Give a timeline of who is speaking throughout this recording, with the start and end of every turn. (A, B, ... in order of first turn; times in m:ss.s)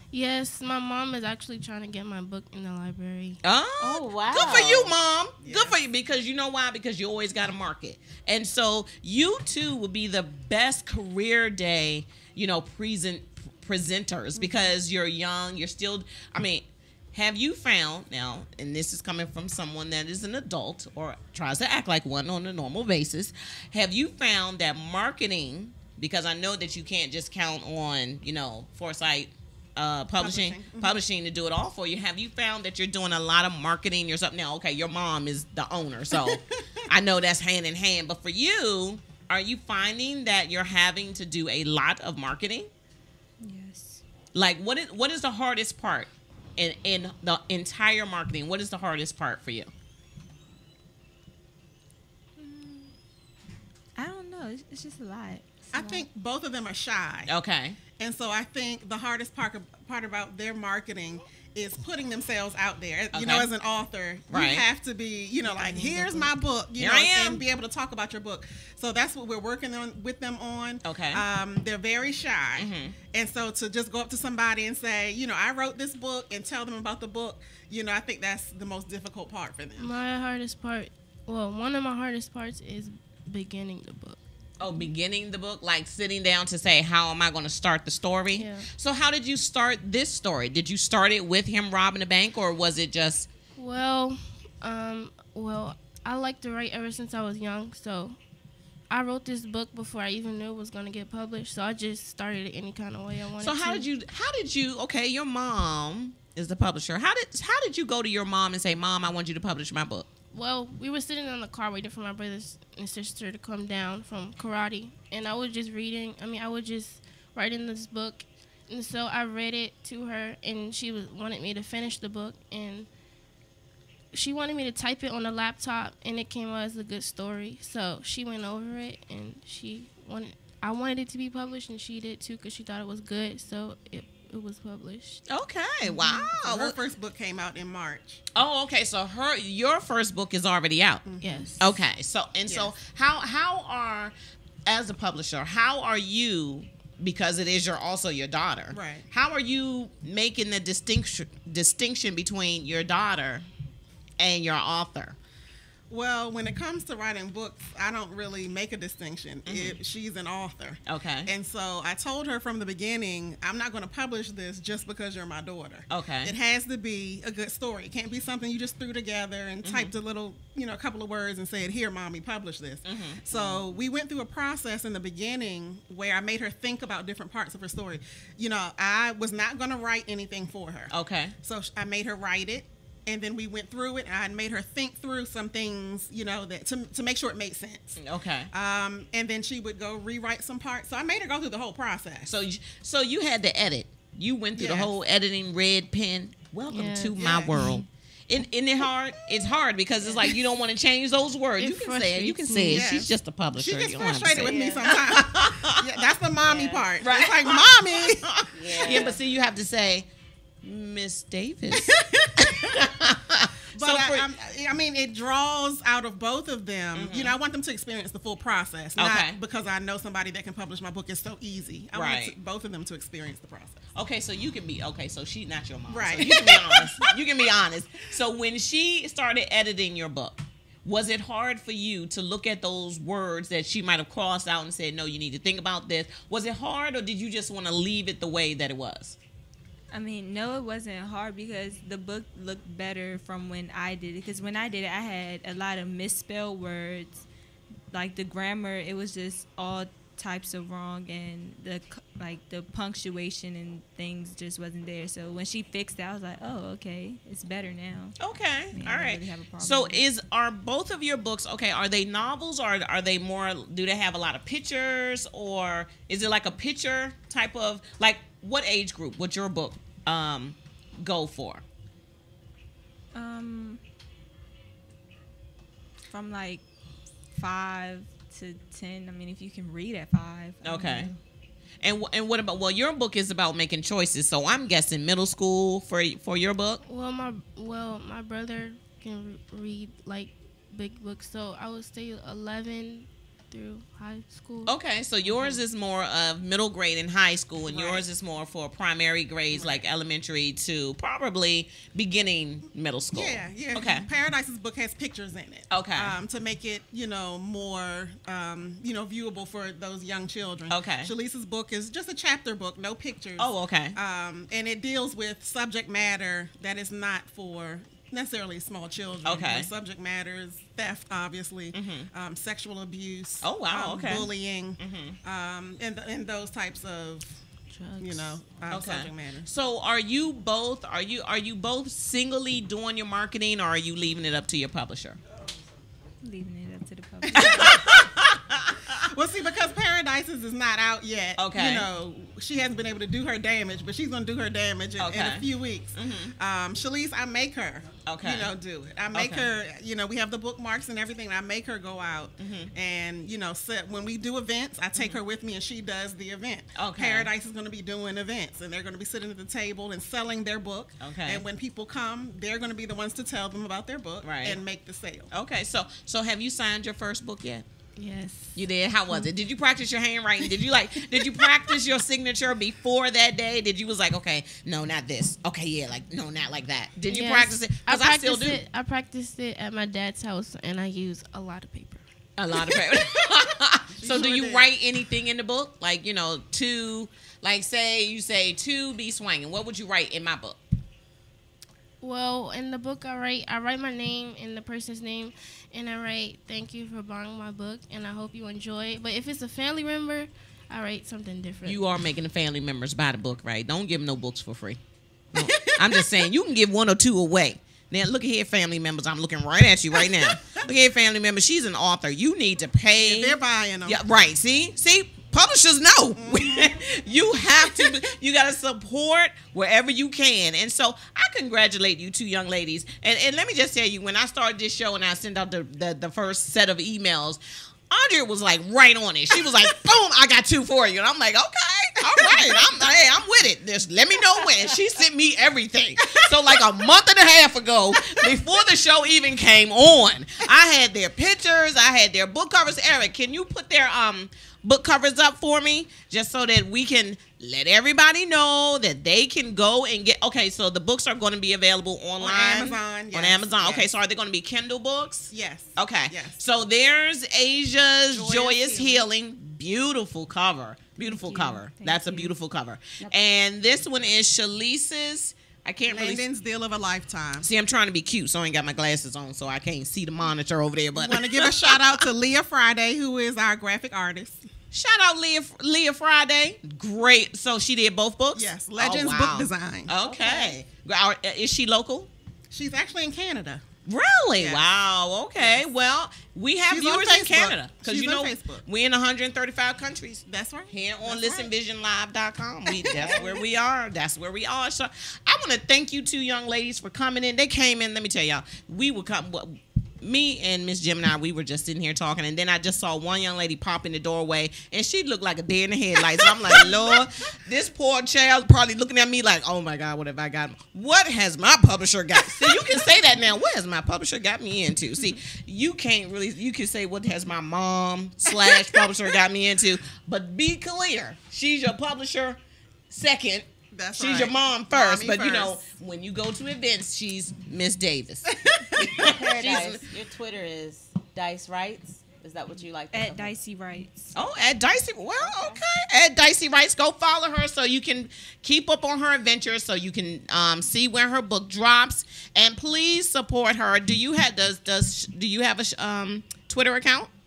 0:00.1-0:03.4 A
0:03.4-0:42.7 B
0:03.8-0:05.0 C
0:05.4-0:05.8 D
0:30.2-0:31.0 D
0:43.4-0:44.0 E
0:44.3-0:49.7 B
0:52.4-0:52.9 E
0:54.0-0:56.1 E
0:55.7-0:57.3 D
0:57.3-0:57.8 B
0:58.0-1:19.9 D
1:03.1-1:03.5 B
1:04.3-1:04.6 B
1:05.6-1:07.4 B
1:10.8-1:11.2 B
1:12.6-1:13.0 B
1:19.8-1:24.2 A
1:24.6-1:33.3 B
1:28.4-1:28.7 A
1:33.6-1:38.2 A
1:38.9-1:43.9 A
1:43.4-1:50.1 B
1:50.3-2:02.9 A
2:04.1-2:15.2 A
2:15.3-2:16.8 B
2:16.3-2:18.2 D
2:18.3-2:21.0 B
2:21.0-2:21.7 D
2:21.2-2:21.6 A
2:21.6-2:24.1 B
2:22.5-2:22.7 D
2:24.6-2:33.5 B
2:28.7-2:29.0 D
2:34.2-2:35.2 B
2:35.9-3:00.9 D
2:39.5-2:39.8 B
2:40.9-2:41.3 B
2:45.9-2:46.3 B
2:49.6-2:49.9 B
2:52.8-2:53.6 B
3:00.9-3:01.3 B
3:01.4-3:08.0 D
3:08.0-3:08.5 B
3:08.5-3:12.3 D
3:12.2-3:25.8 B
3:14.6-3:14.9 D
3:16.7-3:17.8 A
3:17.2-3:17.8 D
3:21.6-3:22.9 A
3:22.6-3:29.2 D
3:24.4-3:24.9 C
3:26.4-3:26.9 C
3:27.0-3:30.1 B
3:28.5-3:29.2 C
3:30.6-3:34.3 B
3:31.7-3:32.7 D
3:33.7-3:43.8 D
3:36.9-3:37.3 B
3:39.0-3:39.4 B
3:41.9-3:42.4 B
3:43.9-3:59.2 B
3:45.9-3:47.1 D
3:59.9-4:07.3 E
4:07.9-4:18.2 E
4:18.2-4:31.6 B
4:18.7-4:20.0 E
4:33.2-4:33.8 E
4:36.1-4:36.6 E
4:37.3-4:41.2 E
4:40.6-4:41.1 B
4:41.8-4:46.8 B
4:46.8-4:54.7 A
4:54.7-5:04.1 B
4:57.7-4:58.0 D
4:59.5-4:59.8 D
5:03.1-5:27.4 D
5:05.7-5:06.2 B
5:10.7-5:11.1 B
5:13.4-5:14.0 B
5:19.2-5:19.7 B
5:21.7-5:22.1 B
5:23.4-5:25.2 B
5:27.7-5:28.4 A
5:28.0-5:29.5 D
5:28.7-5:35.2 B
5:36.2-5:37.8 E
5:37.4-5:39.0 B
5:39.1-6:05.3 D
5:41.4-5:41.9 B
5:45.0-5:46.3 B
5:48.0-5:48.5 B
5:49.1-5:49.5 B
5:52.4-5:52.7 B
5:56.8-5:57.3 B
6:01.0-6:01.4 B
6:04.2-6:04.6 B
6:05.3-6:07.6 B
6:08.0-6:08.6 A
6:08.6-6:18.6 B
6:17.1-6:22.0 A
6:22.4-6:30.6 B
6:24.0-6:24.7 D
6:32.0-6:41.8 A
6:41.6-6:44.8 B
6:45.4-7:46.2 B
6:45.4-6:46.2 D
6:50.2-6:50.6 D
6:53.0-6:54.0 D
6:56.2-6:56.7 D
7:12.1-7:12.8 D
7:32.2-7:33.9 D
7:35.3-7:36.4 D
7:38.1-7:39.0 D
7:41.0-7:42.3 E
7:45.9-7:47.5 D
7:47.4-7:51.9 B
7:51.0-7:54.4 D
7:54.7-8:02.1 B
7:58.4-8:00.4 D
8:02.5-8:03.6 D
8:03.9-8:49.8 B
8:04.4-8:04.6 D
8:06.7-8:08.6 D
8:10.3-8:11.5 D
8:12.7-8:13.4 D
8:26.5-8:26.8 D
8:43.7-8:45.6 D
8:48.5-8:49.1 D
8:49.1-8:53.3 C
8:52.9-8:54.1 E
8:54.1-9:07.1 B
8:55.2-8:55.6 C